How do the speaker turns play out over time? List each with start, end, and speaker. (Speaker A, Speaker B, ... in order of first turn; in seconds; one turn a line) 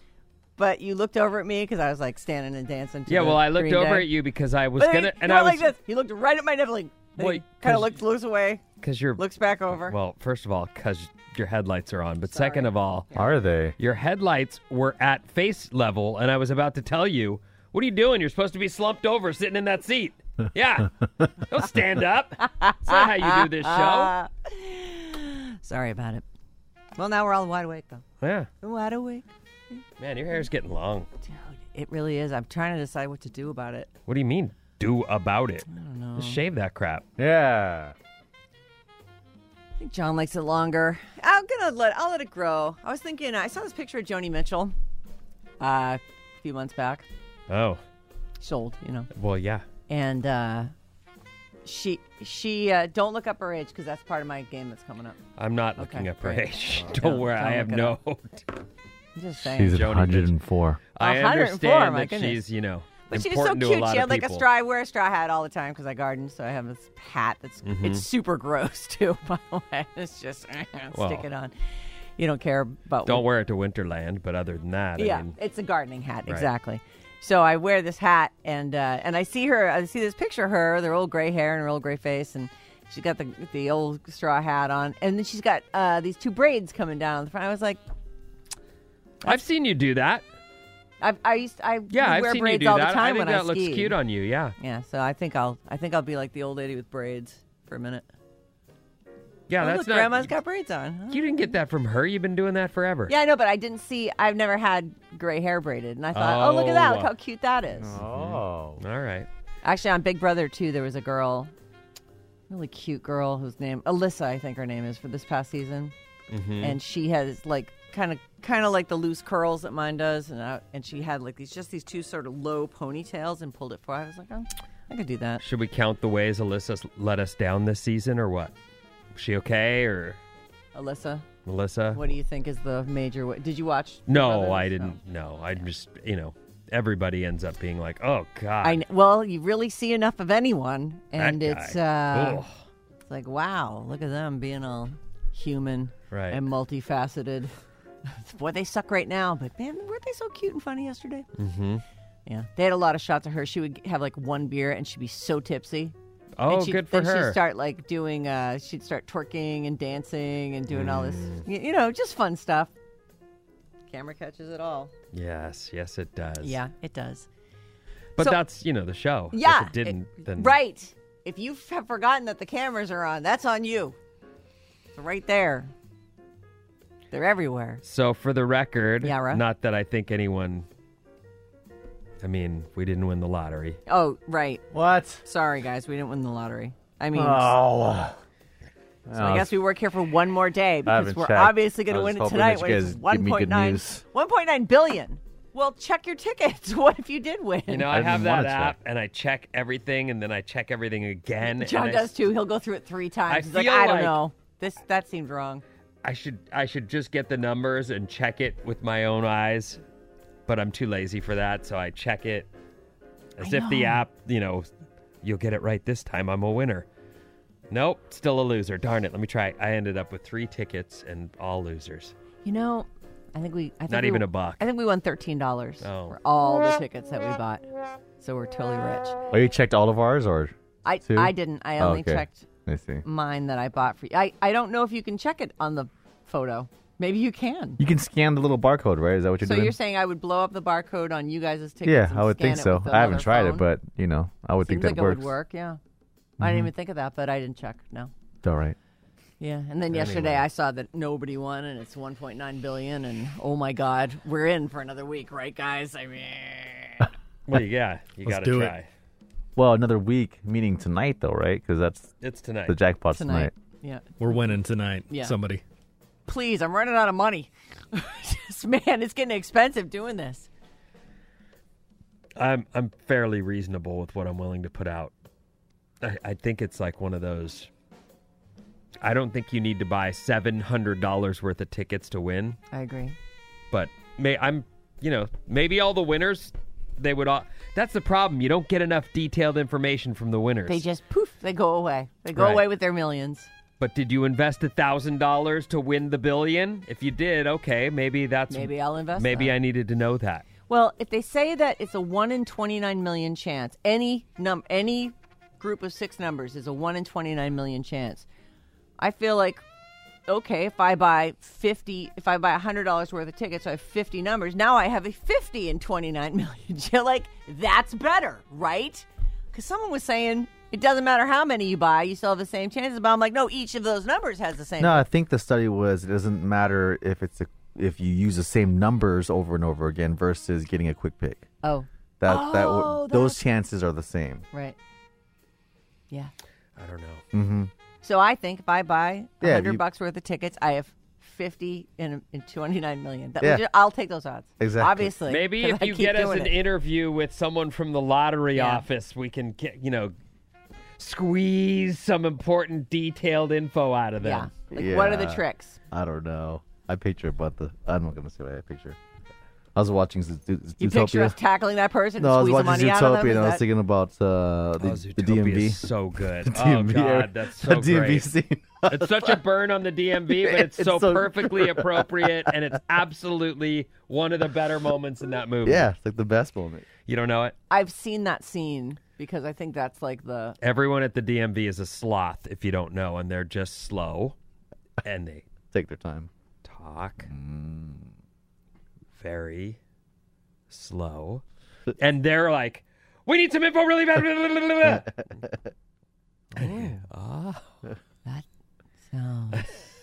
Speaker A: 0.6-4.1
Speaker B: 3.1-5.7
Speaker A: 4.8-8.6
Speaker B: 7.2-8.0
Speaker B: 8.8-9.2
Speaker A: 9.2-10.0
Speaker B: 9.7-13.2
Speaker A: 12.3-13.4
Speaker C: 13.1-13.7
Speaker B: 13.8-24.1
Speaker A: 22.4-26.2
Speaker A: 26.9-28.0
Speaker B: 28.2-28.5
Speaker A: 28.6-29.3
Speaker B: 30.0-31.1
Speaker A: 31.2-33.9
Speaker B: 34.1-37.0
Speaker A: 35.7-36.4
Speaker C: 37.2-37.9
Speaker A: 39.8-44.7
Speaker A: 45.6-47.0
Speaker B: 47.5-47.8
Speaker A: 48.4-49.1
Speaker B: 49.1-49.6
Speaker A: 49.9-50.7
Speaker A: 51.6-55.2
Speaker B: 55.4-58.5
Speaker A: 55.8-58.0
Speaker A: 59.1-59.8
Speaker C: 59.4-60.8
Speaker B: 59.6-60.3
Speaker B: 60.9-64.5
Speaker A: 61.0-62.4
Speaker A: 63.1-71.5
Speaker B: 67.6-68.0
Speaker B: 70.9-71.2
Speaker A: 72.2-73.2
Speaker B: 73.0-75.3
Speaker A: 75.0-87.8
Speaker B: 89.2-90.2
Speaker A: 91.0-94.0
Speaker B: 91.9-94.5
Speaker A: 94.6-98.1
Speaker B: 99.5-100.3
Speaker A: 99.6-101.5
Speaker B: 101.1-103.1
Speaker A: 103.1-108.0
Speaker B: 106.1-107.1
Speaker C: 107.7-108.8
Speaker B: 108.0-109.3
Speaker A: 109.6-111.5
Speaker A: 112.5-115.9
Speaker B: 116.3-116.8
Speaker A: 116.6-125.4
Speaker B: 125.4-128.5
Speaker B: 129.1-130.2
Speaker A: 130.7-131.3
Speaker B: 131.4-132.0
Speaker A: 131.9-135.0
Speaker B: 134.1-138.8
Speaker A: 138.6-142.4
Speaker B: 141.2-142.5
Speaker A: 143.1-147.5
Speaker B: 146.1-146.4
Speaker A: 148.1-151.2
Speaker B: 151.3-151.8
Speaker A: 152.2-155.9
Speaker B: 156.4-157.4
Speaker A: 156.5-162.7
Speaker B: 160.7-161.4
Speaker A: 163.9-164.9
Speaker B: 165.1-166.6
Speaker A: 166.4-167.3
Speaker B: 168.2-170.6
Speaker A: 169.3-173.9
Speaker A: 174.9-175.7
Speaker A: 177.1-177.8
Speaker B: 177.8-180.7
Speaker A: 179.0-179.4
Speaker B: 182.2-183.8
Speaker A: 183.9-184.6
Speaker C: 184.7-185.2
Speaker A: 185.2-187.6
Speaker C: 187.1-188.2
Speaker C: 189.1-189.6
Speaker A: 189.1-197.9
Speaker C: 190.8-194.0
Speaker B: 197.7-202.3
Speaker C: 197.9-198.8
Speaker A: 201.4-205.6
Speaker B: 203.3-204.2
Speaker B: 206.0-209.8
Speaker B: 210.5-212.5
Speaker B: 213.4-214.7
Speaker A: 213.4-214.0
Speaker B: 215.2-216.9
Speaker B: 217.7-222.1
Speaker A: 222.4-229.2
Speaker B: 223.9-224.7
Speaker B: 225.8-226.2
Speaker C: 229.3-233.0
Speaker A: 230.8-232.4
Speaker A: 233.0-237.8
Speaker C: 237.8-239.8
Speaker A: 239.4-243.7
Speaker C: 241.8-245.3
Speaker A: 244.6-245.8
Speaker C: 246.4-246.7
Speaker A: 246.4-248.1
Speaker C: 248.4-248.8
Speaker A: 249.4-257.1
Speaker B: 249.9-250.4
Speaker B: 257.5-258.9
Speaker D: 258.2-258.7
Speaker C: 259.6-262.1
Speaker B: 262.2-262.8
Speaker C: 262.7-263.5
Speaker A: 263.1-264.4
Speaker D: 264.2-265.6
Speaker A: 265.1-265.3
Speaker A: 266.2-270.5
Speaker B: 272.4-275.1
Speaker B: 276.0-277.7
Speaker B: 279.0-282.6
Speaker A: 282.7-283.1
Speaker B: 283.7-290.8
Speaker A: 290.7-293.5
Speaker B: 292.3-292.6
Speaker B: 293.8-300.5
Speaker A: 298.5-299.5
Speaker A: 300.7-308.2
Speaker A: 309.0-309.6
Speaker A: 310.3-325.1
Speaker C: 324.8-331.4
Speaker A: 331.6-333.4
Speaker C: 332.2-334.4
Speaker A: 334.5-334.8
Speaker B: 336.8-337.2
Speaker C: 337.3-337.7
Speaker A: 338.0-346.6
Speaker C: 339.4-339.8
Speaker C: 344.6-345.1
Speaker B: 345.3-350.1
Speaker A: 348.5-348.9
Speaker B: 351.0-354.5
Speaker A: 354.2-355.8
Speaker C: 354.7-359.0
Speaker C: 359.7-361.4
Speaker A: 360.8-363.6
Speaker C: 362.2-365.8
Speaker B: 364.8-368.3
Speaker C: 366.4-369.4
Speaker B: 368.9-375.9
Speaker C: 370.3-372.6
Speaker C: 375.6-376.9
Speaker B: 377.1-377.5
Speaker A: 377.7-380.6
Speaker B: 380.6-384.4
Speaker B: 385.0-385.4
Speaker C: 385.7-386.3
Speaker B: 386.6-387.3
Speaker C: 387.3-388.1
Speaker B: 389.1-389.8
Speaker B: 390.7-391.4
Speaker B: 392.0-395.3
Speaker C: 394.8-395.6
Speaker B: 396.6-397.7
Speaker A: 396.6-397.0
Speaker A: 399.0-399.9